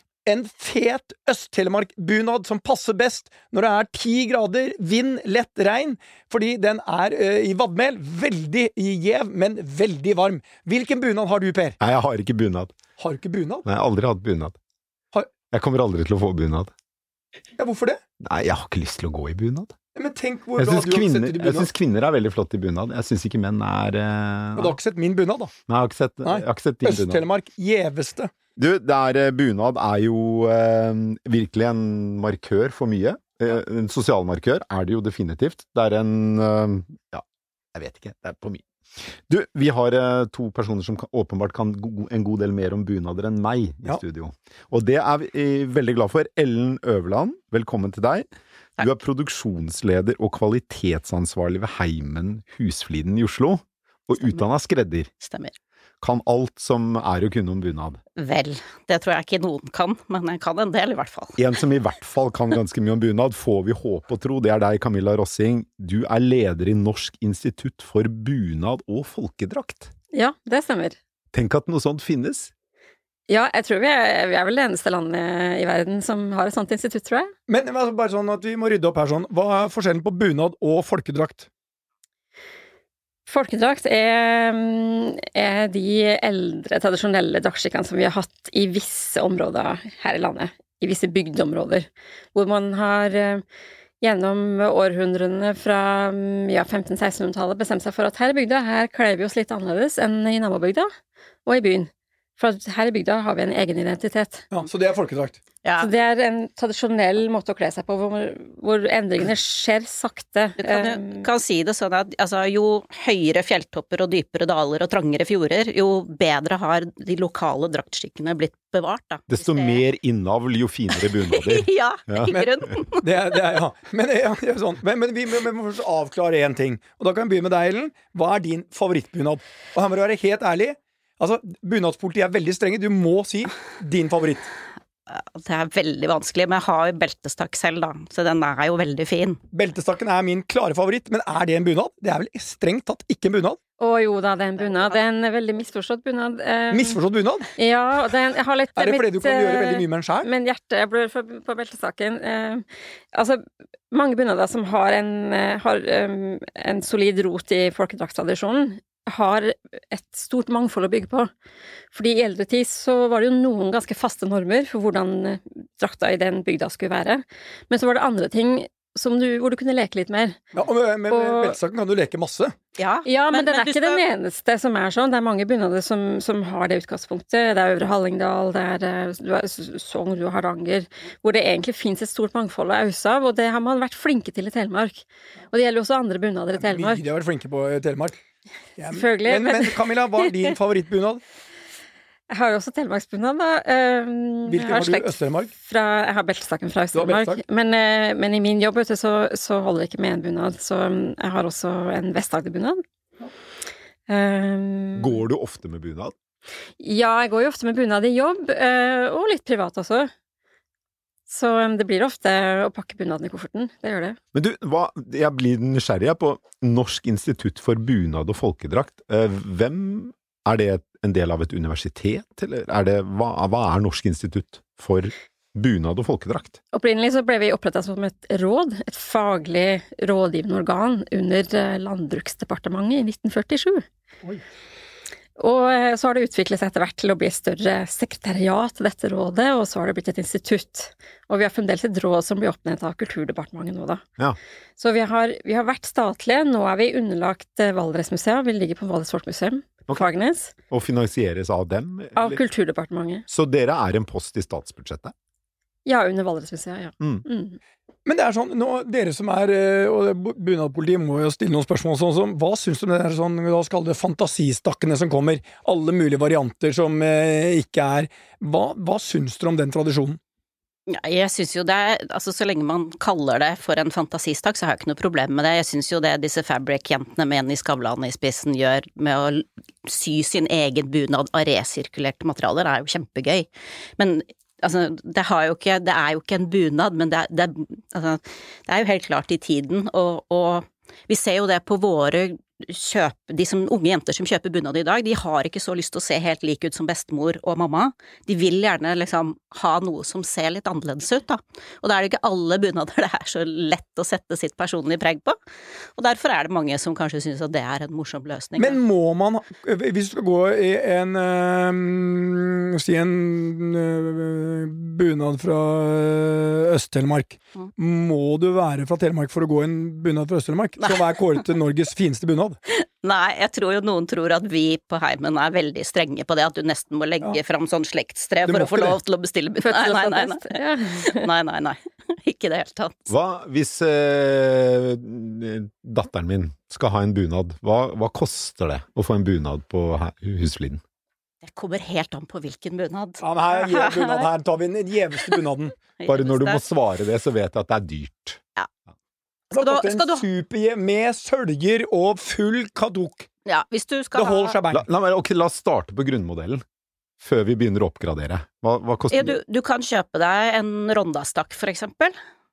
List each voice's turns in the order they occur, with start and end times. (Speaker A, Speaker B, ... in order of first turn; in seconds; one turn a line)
Speaker A: 0.3-11.8
Speaker B: 11.8-12.8
Speaker A: 13.0-13.7
Speaker B: 13.7-14.6
Speaker B: 15.5-16.7
Speaker A: 17.6-18.0
Speaker B: 18.2-19.8
Speaker A: 19.9-21.7
Speaker B: 20.6-24.8
Speaker A: 24.6-25.5
Speaker B: 25.7-27.2
Speaker A: 26.2-28.3
Speaker B: 28.6-38.6
Speaker B: 39.3-48.3
Speaker B: 48.8-55.1
Speaker C: 55.2-55.5
Speaker B: 56.0-58.0
Speaker C: 58.2-61.4
Speaker B: 61.4-69.9
Speaker D: 70.1-71.0
Speaker B: 71.3-72.5
Speaker D: 73.3-77.3
Speaker A: 77.5-81.5
Speaker D: 83.3-93.4
Speaker D: 94.0-100.9
Speaker D: 101.5-104.5
Speaker A: 104.5-105.4
Speaker C: 105.6-105.9
Speaker D: 105.8-111.2
Speaker C: 110.6-119.8
Speaker B: 119.3-122.8
Speaker C: 121.0-123.3
Speaker A: 123.0-134.5
Speaker C: 135.1-139.4
Speaker A: 139.5-143.6
Speaker D: 143.8-147.0
Speaker A: 146.7-147.5
Speaker D: 147.6-161.3
Speaker A: 148.8-150.3
Speaker D: 161.9-170.4
Speaker A: 170.6-172.6
Speaker D: 171.1-171.6
Speaker C: 172.8-174.0
Speaker D: 173.1-187.0
Speaker A: 186.6-188.2
Speaker A: 188.8-191.2
Speaker D: 188.9-190.3
Speaker D: 192.3-202.8
Speaker A: 194.5-195.5
Speaker A: 196.9-197.4
Speaker D: 204.1-205.2
Speaker B: 205.0-206.1
Speaker D: 206.8-210.1
Speaker D: 211.3-214.2
Speaker B: 214.3-226.6
Speaker D: 226.7-233.8
Speaker D: 235.4-244.0
Speaker D: 244.8-250.5
Speaker B: 250.7-252.4
Speaker D: 252.2-253.2
Speaker B: 253.3-255.1
Speaker D: 255.9-257.6
Speaker A: 258.1-270.2
Speaker C: 270.9-305.4
Speaker C: 306.0-308.8
Speaker A: 308.6-322.6
Speaker C: 320.8-321.1
Speaker C: 322.7-333.1
Speaker A: 328.4-329.0
Speaker D: 329.6-331.3
Speaker B: 333.1-340.8
Speaker C: 341.4-344.3
Speaker A: 343.2-345.8
Speaker C: 346.0-346.6
Speaker B: 346.1-348.4
Speaker A: 349.5-353.3
Speaker C: 349.5-350.3
Speaker C: 353.4-354.6
Speaker A: 354.1-354.9
Speaker B: 354.7-356.6
Speaker B: 357.2-359.4
Speaker C: 359.1-362.1